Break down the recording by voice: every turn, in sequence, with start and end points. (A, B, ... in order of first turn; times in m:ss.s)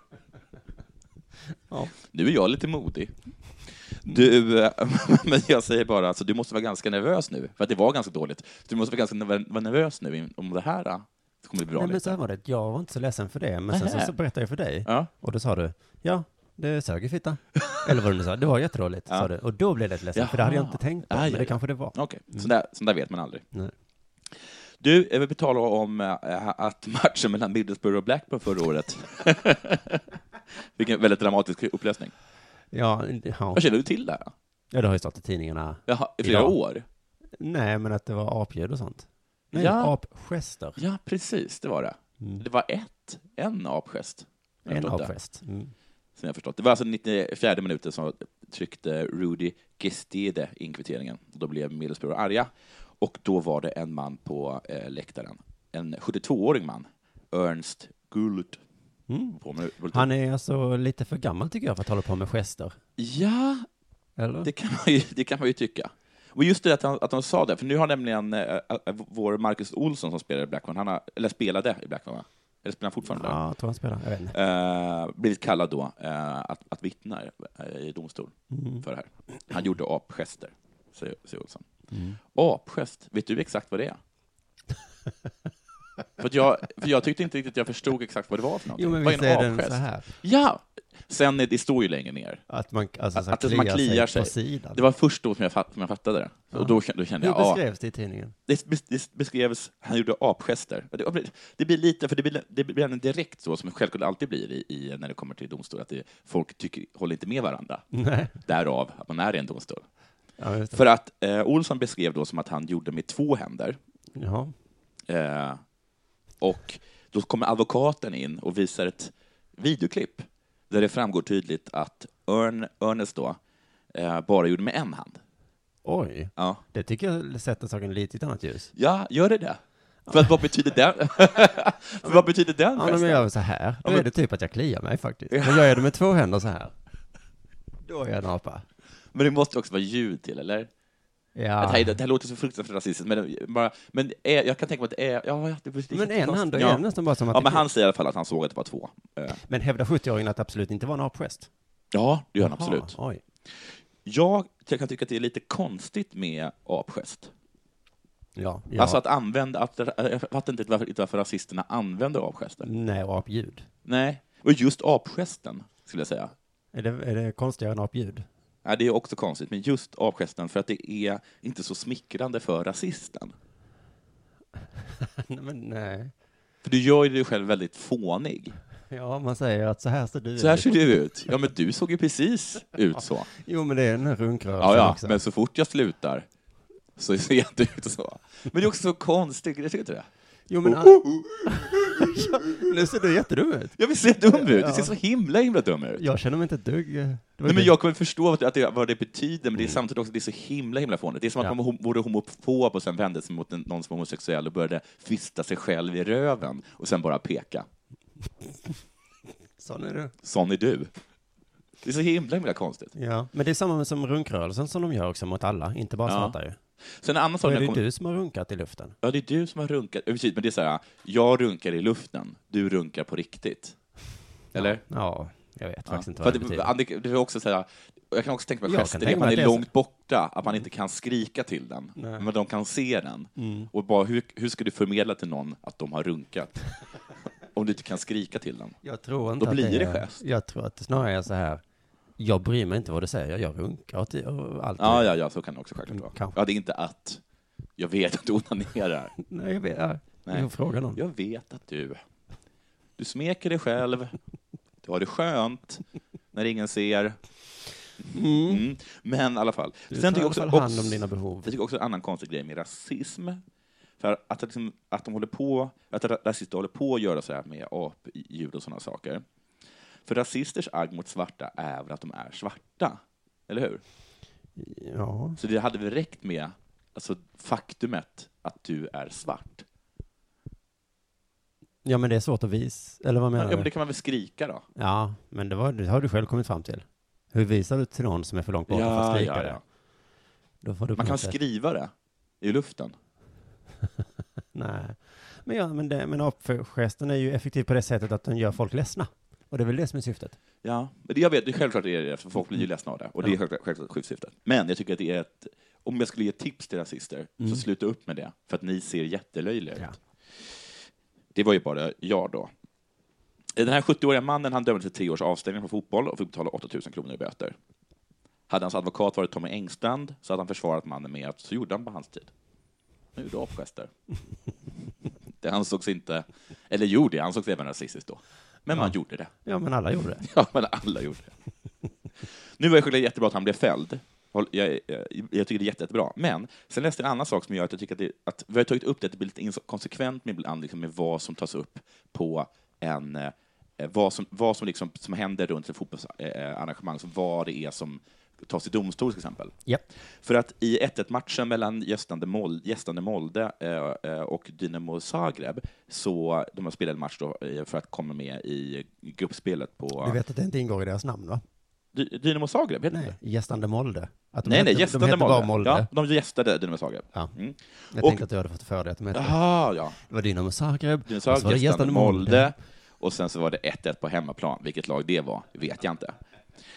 0:02.0-0:03.1 A
0:03.7-0:12.2 A
0:11.7-0:22.5 B
0:13.7-0:14.1 A
0:20.1-0:23.4 A
0:24.8-0:30.0 A
0:30.6-0:32.1 A
0:32.7-0:33.6 B
0:33.5-0:34.3 A
0:34.7-0:36.5 B
0:35.9-0:36.8 A
0:37.4-0:40.8 B
0:39.5-0:39.9 A
0:40.8-0:45.1 A
0:44.7-0:45.7 B
0:46.2-0:58.6 A
0:59.1-0:59.4 B
0:59.4-1:00.1 A
0:59.9-1:02.8 B
1:03.0-1:03.7 A
1:04.2-1:04.5 B
1:04.4-1:13.4 A
1:13.0-1:14.3 B
1:14.3-1:21.6 A
1:18.5-1:18.8 B
1:21.9-1:22.2 B
1:22.3-1:24.0 A
1:26.2-1:32.4 A
1:28.8-1:30.1 B
1:32.5-1:34.8 B
1:33.1-1:37.6 A
1:36.5-1:38.3 B
1:38.5-1:47.8 A
1:47.9-1:48.3 B
1:48.4-1:49.8 A
1:50.4-1:50.8 B
1:50.7-1:53.8 A
1:54.1-1:54.5 B
1:55.1-1:55.6 A
1:56.4-2:03.4 A
2:03.9-2:05.2 A
2:05.8-2:08.7 B
2:06.4-2:06.6 A
2:08.8-2:13.2 A
2:12.0-2:16.7 B
2:13.8-2:14.1 A
2:15.3-2:15.8 A
2:17.8-2:18.6 B
2:19.1-2:20.7 A
2:21.4-2:22.0 B
2:21.6-2:29.4 A
2:25.9-2:27.6 B
2:29.4-2:31.5 B
2:31.9-2:32.9 A
2:32.4-2:33.2 B
2:33.5-2:37.3 A
2:38.4-2:39.0 B
2:38.8-2:42.7 A
2:42.6-2:43.6 B
2:43.8-2:46.3 A
2:46.7-2:48.3 B
2:48.6-2:53.3 A
2:54.9-2:56.1 B
2:56.6-2:58.6 A
2:58.9-3:00.8 B
3:00.4-3:03.3 A
3:03.3-3:05.2 B
3:04.6-3:06.2 A
3:07.0-3:10.1 A
3:10.5-3:13.8 B
3:10.6-3:12.6 A
3:13.8-3:16.0 A
3:14.3-3:14.9 B
3:16.0-3:17.7 B
3:17.4-3:27.6 A
3:29.6-3:30.1 B
3:30.2-3:30.9 A
3:31.8-3:32.9 A
3:32.9-3:36.6 B
3:36.0-3:36.3 A
3:36.8-3:37.8 A
3:37.4-3:39.0 B
3:39.0-3:43.8 A
3:44.5-3:44.8 A
3:44.5-3:46.7 B
3:45.9-3:56.6 A
3:48.6-3:49.7 B
3:52.0-3:52.2 B
3:53.4-3:53.7 B
3:57.5-3:58.8 A
3:58.8-4:01.6 B
3:59.4-4:00.2 A
4:02.2-4:05.1 B
4:04.8-4:07.2 A
4:05.9-4:06.4 B
4:07.8-4:09.1 A
4:09.2-4:11.0 B
4:10.3-4:12.0 A
4:13.0-4:14.1 A
4:14.8-4:17.2 A
4:18.1-4:18.6 B
4:18.4-4:23.4 A
4:19.9-4:21.5 B
4:24.0-4:29.2 A
4:30.0-4:33.8 A
4:34.6-4:35.4 B
4:35.4-4:39.6 A
4:41.8-4:43.7 B
4:43.4-4:44.6 A
4:44.8-4:49.6 B
4:48.7-4:49.6 A
4:50.6-4:51.4 B
4:51.0-4:52.9 A
4:54.5-5:00.4 B
5:00.6-5:09.8 A
5:11.3-5:12.5 A
5:13.5-5:17.5 A
5:18.5-5:22.3 A
5:23.1-5:23.9 A
5:25.4-5:29.3 A
5:29.4-5:30.2 B
5:30.2-5:31.3 A
5:32.6-5:49.5 A
5:50.2-6:00.2 A
6:00.0-6:01.4 B
6:01.9-6:03.1 A
6:02.9-6:05.9 B
6:04.4-6:08.2 A
6:07.9-6:09.4 B
6:09.1-6:10.0 A
6:10.0-6:12.5 B
6:11.1-6:16.2 A